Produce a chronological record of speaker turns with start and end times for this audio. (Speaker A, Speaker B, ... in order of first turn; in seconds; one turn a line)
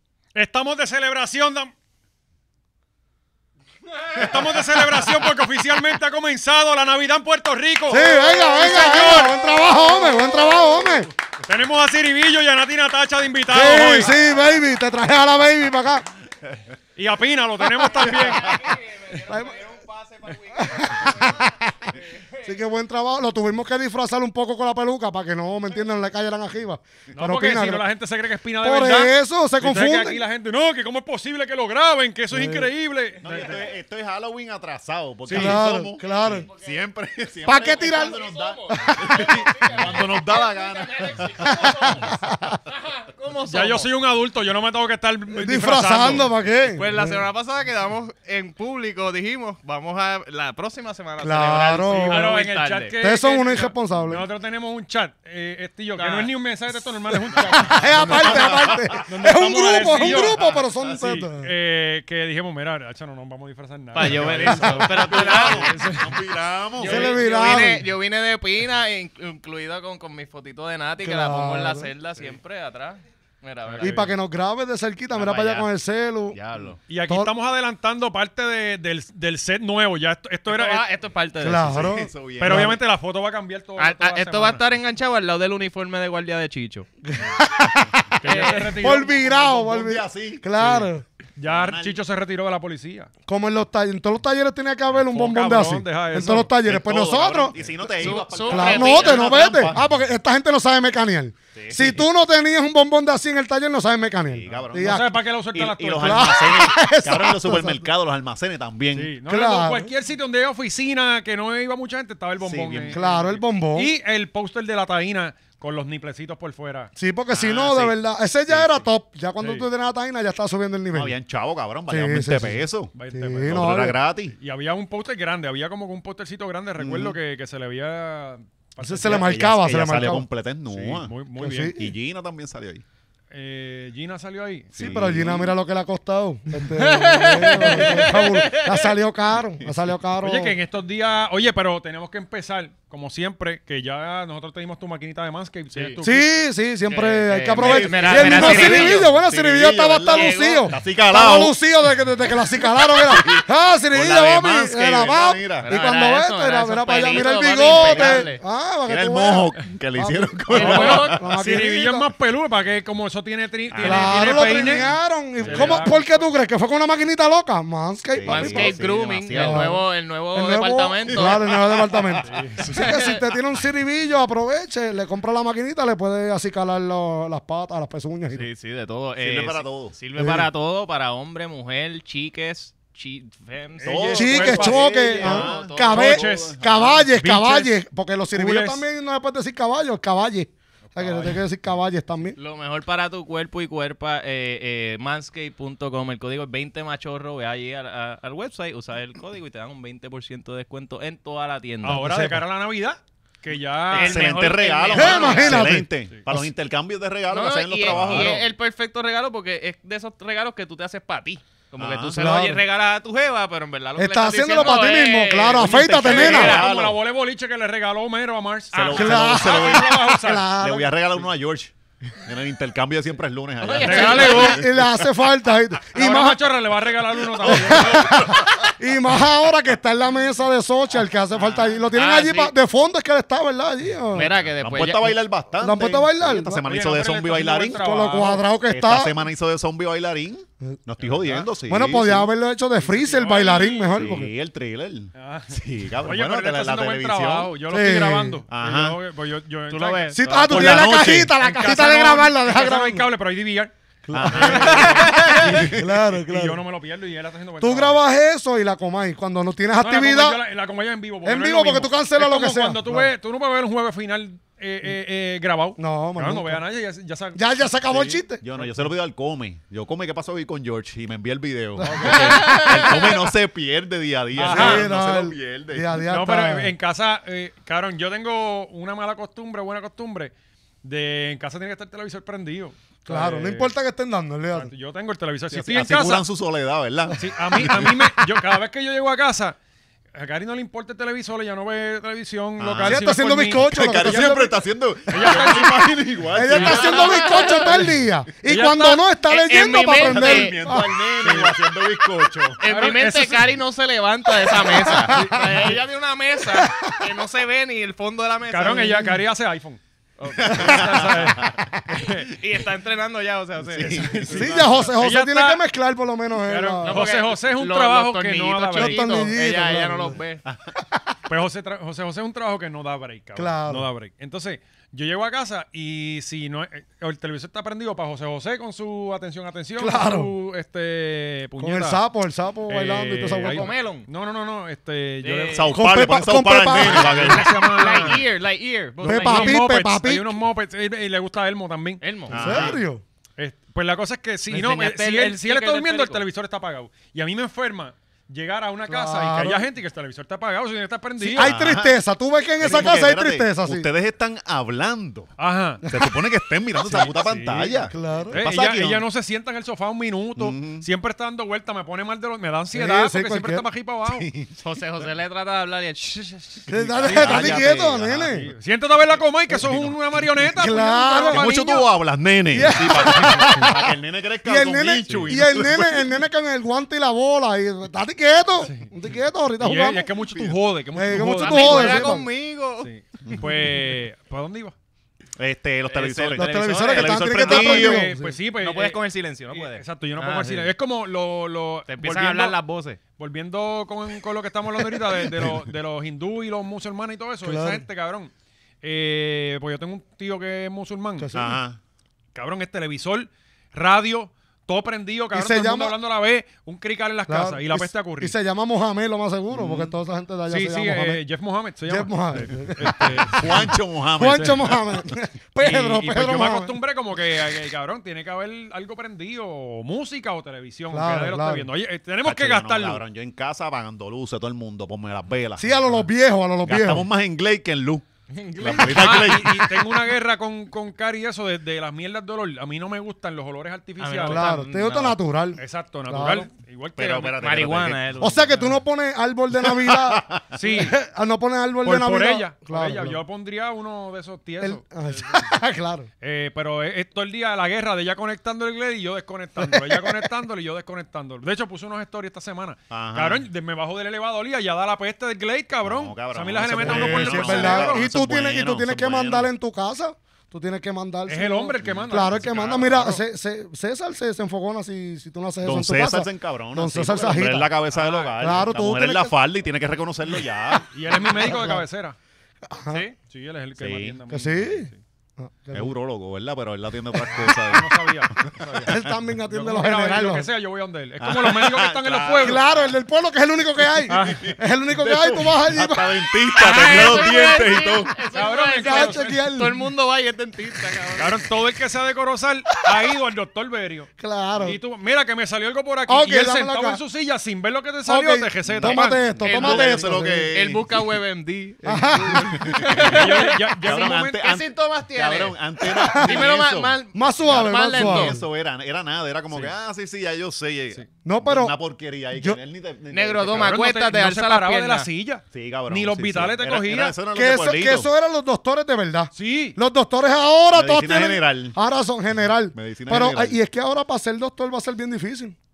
Speaker A: 0.3-1.7
Speaker A: 4.1-9.3
Speaker B: 7.9-11.1
Speaker A: 11.4-14.1
Speaker B: 13.5-16.1
Speaker A: 16.9-18.7
Speaker C: 17.9-22.5
Speaker B: 19.1-19.6
Speaker B: 20.5-21.9
Speaker B: 22.4-27.8
Speaker A: 27.1-33.7
Speaker B: 28.6-30.2
Speaker B: 32.3-32.7
Speaker D: 33.2-41.5
Speaker C: 33.3-33.6
Speaker B: 35.3-36.5
Speaker A: 35.3-35.6
Speaker B: 37.4-39.3
Speaker C: 37.5-43.9
Speaker B: 41.5-42.6
Speaker A: 43.5-46.3
Speaker B: 45.3-47.2
Speaker C: 46.7-52.9
Speaker B: 51.2-52.4
Speaker A: 51.9-58.5
Speaker B: 53.0-54.3
Speaker C: 56.0-56.3
Speaker B: 57.3-61.5
Speaker C: 57.4-58.5
Speaker D: 57.8-59.0
Speaker A: 59.0-66.1
Speaker D: 59.9-60.6
Speaker C: 63.9-66.1
Speaker B: 64.2-65.0
Speaker D: 64.4-67.1
Speaker A: 66.8-67.7
Speaker B: 66.8-67.9
Speaker C: 66.8-74.1
Speaker B: 71.0-71.9
Speaker B: 73.8-76.4
Speaker C: 75.1-75.7
Speaker C: 76.3-76.8
Speaker A: 76.9-80.8
Speaker C: 80.5-81.9
Speaker B: 81.4-82.8
Speaker D: 81.6-82.7
Speaker A: 82.4-84.6
Speaker C: 83.8-86.9
Speaker B: 87.0-91.0
Speaker C: 88.2-88.8
Speaker A: 88.2-89.3
Speaker D: 89.1-90.5
Speaker A: 91.3-93.1
Speaker D: 91.4-92.0
Speaker B: 93.3-105.2
Speaker A: 95.0-96.5
Speaker D: 96.6-99.8
Speaker C: 98.0-99.5
Speaker D: 101.6-102.0
Speaker D: 104.3-109.1
Speaker A: 104.5-106.4
Speaker B: 106.0-107.9
Speaker A: 108.9-116.9
Speaker B: 109.2-109.9
Speaker D: 112.4-113.2
Speaker B: 112.9-113.9
Speaker B: 117.0-121.1
Speaker D: 117.3-118.0
Speaker D: 118.5-118.9
Speaker A: 119.4-119.7
Speaker D: 120.9-122.9
Speaker B: 121.9-124.0
Speaker A: 122.9-123.6
Speaker D: 123.5-124.3
Speaker A: 124.4-129.3
Speaker D: 126.8-127.2
Speaker B: 128.8-130.2
Speaker D: 129.0-131.1
Speaker A: 130.7-131.7
Speaker B: 131.3-131.9
Speaker D: 131.8-132.8
Speaker A: 133.3-134.8
Speaker D: 134.8-135.5
Speaker B: 134.8-140.6
Speaker C: 136.7-138.9
Speaker A: 140.2-146.3
Speaker B: 146.0-162.1
Speaker C: 146.9-149.1
Speaker D: 147.6-151.5
Speaker C: 150.1-150.7
Speaker D: 152.5-155.7
Speaker C: 155.6-158.4
Speaker D: 157.6-158.3
Speaker D: 158.8-161.1
Speaker C: 160.5-161.2
Speaker A: 160.5-166.0
Speaker D: 163.7-165.9
Speaker B: 163.8-168.8
Speaker D: 168.1-169.7
Speaker C: 168.2-171.5
Speaker B: 169.3-178.5
Speaker D: 171.1-172.2
Speaker A: 172.2-172.6
Speaker C: 172.6-173.3
Speaker C: 178.3-185.8
Speaker D: 179.2-180.0
Speaker B: 180.2-180.5
Speaker A: 183.8-187.8
Speaker D: 183.8-187.1
Speaker B: 184.1-192.4
Speaker A: 188.3-188.8
Speaker A: 190.9-191.4
Speaker C: 192.3-202.1
Speaker A: 201.8-204.3
Speaker B: 201.9-202.4
Speaker C: 203.9-205.7
Speaker D: 203.9-208.4
Speaker B: 204.9-206.5
Speaker C: 207.3-216.7
Speaker A: 207.9-208.4
Speaker D: 211.8-212.2
Speaker B: 212.1-212.6
Speaker B: 214.0-216.6
Speaker D: 215.6-217.0
Speaker A: 216.0-220.5
Speaker D: 218.7-225.0
Speaker B: 218.9-220.9
Speaker C: 223.6-224.6
Speaker A: 223.8-224.6
Speaker B: 223.9-226.5
Speaker A: 225.9-228.3
Speaker B: 227.4-234.3
Speaker D: 227.4-228.6
Speaker C: 231.4-232.5
Speaker C: 234.1-235.2
Speaker D: 234.5-237.8
Speaker B: 235.6-236.6
Speaker A: 236.6-238.4
Speaker B: 237.7-239.3
Speaker D: 238.7-242.3
Speaker B: 241.6-244.3
Speaker A: 242.8-244.0
Speaker D: 243.9-247.5
Speaker A: 245.1-258.0
Speaker B: 247.7-248.4
Speaker D: 248.5-249.0
Speaker C: 249.7-250.8
Speaker B: 250.1-253.1
Speaker D: 250.5-251.3
Speaker B: 254.1-256.6
Speaker D: 254.1-256.0
Speaker C: 254.4-255.4
Speaker B: 257.6-260.4
Speaker A: 259.8-268.9
Speaker B: 261.2-263.1
Speaker B: 265.8-266.6
Speaker B: 267.3-268.4
Speaker D: 268.4-275.9
Speaker B: 271.8-272.4
Speaker A: 271.8-272.7
Speaker C: 272.1-273.2
Speaker A: 274.3-274.9
Speaker B: 274.4-276.7
Speaker A: 276.1-280.3
Speaker A: 280.8-283.7
Speaker B: 283.1-284.7
Speaker A: 284.5-286.2
Speaker D: 285.5-288.1
Speaker A: 287.1-289.6
Speaker A: 290.1-294.4
Speaker D: 292.6-292.9
Speaker B: 292.8-294.6
Speaker D: 293.5-297.9
Speaker A: 295.1-295.9
Speaker B: 295.1-295.6
Speaker B: 296.3-301.0
Speaker A: 296.5-296.8
Speaker C: 296.5-297.9
Speaker A: 298.4-299.0
Speaker C: 299.2-300.6
Speaker D: 299.9-302.6
Speaker A: 301.2-301.6
Speaker C: 302.6-309.1
Speaker A: 302.6-303.5
Speaker B: 304.6-305.4
Speaker A: 304.9-305.4
Speaker B: 306.6-307.0
Speaker A: 308.5-309.8
Speaker C: 310.2-311.1
Speaker D: 310.4-312.0
Speaker A: 310.4-312.3
Speaker C: 312.1-314.3
Speaker D: 313.6-314.9
Speaker A: 313.8-315.6
Speaker B: 314.3-317.1
Speaker A: 316.4-319.1
Speaker C: 316.8-320.4
Speaker B: 318.7-320.2
Speaker D: 320.4-320.8
Speaker A: 321.3-332.0
Speaker B: 323.4-323.9
Speaker B: 329.8-330.3
Speaker B: 331.6-333.7
Speaker A: 332.7-335.8
Speaker C: 333.5-334.1
Speaker C: 335.2-335.8
Speaker D: 335.5-338.2
Speaker B: 335.7-337.5
Speaker A: 336.8-338.2
Speaker C: 336.8-339.6
Speaker B: 339.0-340.4
Speaker A: 339.0-342.8
Speaker C: 342.0-342.4
Speaker D: 342.3-342.8
Speaker B: 342.4-343.0
Speaker A: 343.4-351.8
Speaker C: 344.5-346.2
Speaker B: 348.9-349.7
Speaker B: 351.2-353.9
Speaker D: 351.4-352.0
Speaker D: 352.6-355.3
Speaker A: 355.4-355.8
Speaker B: 355.8-356.2
Speaker D: 355.9-359.0
Speaker A: 356.8-364.3
Speaker B: 357.9-358.5
Speaker D: 360.4-360.9
Speaker B: 362.7-363.6
Speaker D: 364.1-364.6
Speaker C: 364.6-366.7
Speaker B: 366.7-368.5
Speaker D: 366.7-368.5
Speaker A: 367.0-371.9
Speaker B: 369.5-369.8
Speaker B: 370.6-371.4
Speaker D: 371.2-376.2
Speaker B: 372.5-380.1
Speaker A: 372.6-373.7
Speaker A: 378.6-378.9
Speaker A: 379.6-382.2
Speaker D: 380.2-380.6
Speaker B: 380.9-382.3
Speaker C: 381.2-382.9
Speaker A: 382.8-384.7
Speaker D: 383.2-383.7
Speaker D: 385.4-388.1
Speaker C: 385.9-387.5
Speaker B: 386.4-388.3
Speaker A: 387.4-389.0
Speaker C: 388.6-390.7
Speaker A: 389.5-392.6
Speaker C: 391.9-393.0
Speaker A: 393.2-398.3
Speaker B: 397.4-397.8
Speaker A: 398.8-401.3
Speaker B: 401.2-401.6
Speaker D: 401.3-401.8
Speaker A: 402.3-408.4
Speaker B: 405.3-405.9
Speaker B: 407.3-411.2
Speaker D: 409.5-409.9
Speaker A: 410.5-413.7
Speaker B: 411.9-416.8
Speaker D: 413.3-414.8
Speaker A: 414.3-414.7
Speaker A: 415.6-423.0
Speaker B: 420.9-421.7
Speaker D: 422.2-425.8
Speaker B: 425.6-427.1
Speaker D: 426.6-428.1
Speaker C: 428.3-429.4
Speaker D: 428.6-429.8
Speaker A: 428.7-434.5
Speaker C: 434.0-435.1
Speaker B: 434.2-436.5
Speaker A: 435.6-437.4
Speaker D: 437.0-438.0
Speaker C: 437.4-438.8
Speaker B: 438.2-443.2
Speaker D: 439.6-440.4
Speaker A: 440.5-440.9
Speaker A: 441.8-445.6
Speaker B: 444.6-446.1
Speaker A: 446.2-458.1
Speaker B: 449.6-450.3
Speaker D: 452.9-453.4
Speaker D: 455.8-459.5
Speaker B: 456.8-467.7
Speaker A: 461.3-463.2
Speaker D: 461.8-462.1
Speaker D: 465.6-470.9
Speaker A: 467.9-468.6
Speaker B: 468.4-469.3
Speaker A: 470.9-472.1
Speaker B: 471.1-471.9
Speaker B: 472.6-473.0
Speaker C: 472.9-473.1
Speaker A: 473.3-475.0
Speaker D: 473.8-474.2
Speaker B: 474.3-475.9
Speaker D: 475.7-479.1
Speaker A: 477.4-478.9
Speaker B: 478.8-480.5
Speaker A: 479.5-482.6
Speaker D: 481.2-482.9
Speaker B: 482.4-486.3
Speaker D: 483.9-488.1
Speaker A: 484.1-484.4
Speaker C: 486.6-491.5
Speaker B: 486.9-487.2
Speaker A: 488.3-489.5
Speaker B: 488.8-489.9
Speaker A: 491.2-499.2
Speaker B: 494.2-494.8
Speaker B: 496.1-497.0
Speaker B: 498.1-500.5
Speaker D: 498.6-501.0
Speaker C: 499.4-508.4
Speaker B: 501.8-502.6
Speaker D: 502.3-503.3
Speaker A: 503.0-504.4
Speaker D: 503.8-507.0
Speaker B: 506.0-506.5
Speaker B: 507.1-508.4
Speaker D: 507.5-513.7
Speaker B: 511.2-511.7
Speaker B: 512.3-512.6
Speaker C: 513.1-515.1
Speaker A: 513.4-517.1
Speaker D: 515.5-518.1
Speaker B: 517.3-525.5
Speaker A: 519.3-519.8
Speaker D: 520.7-521.8
Speaker D: 522.7-523.6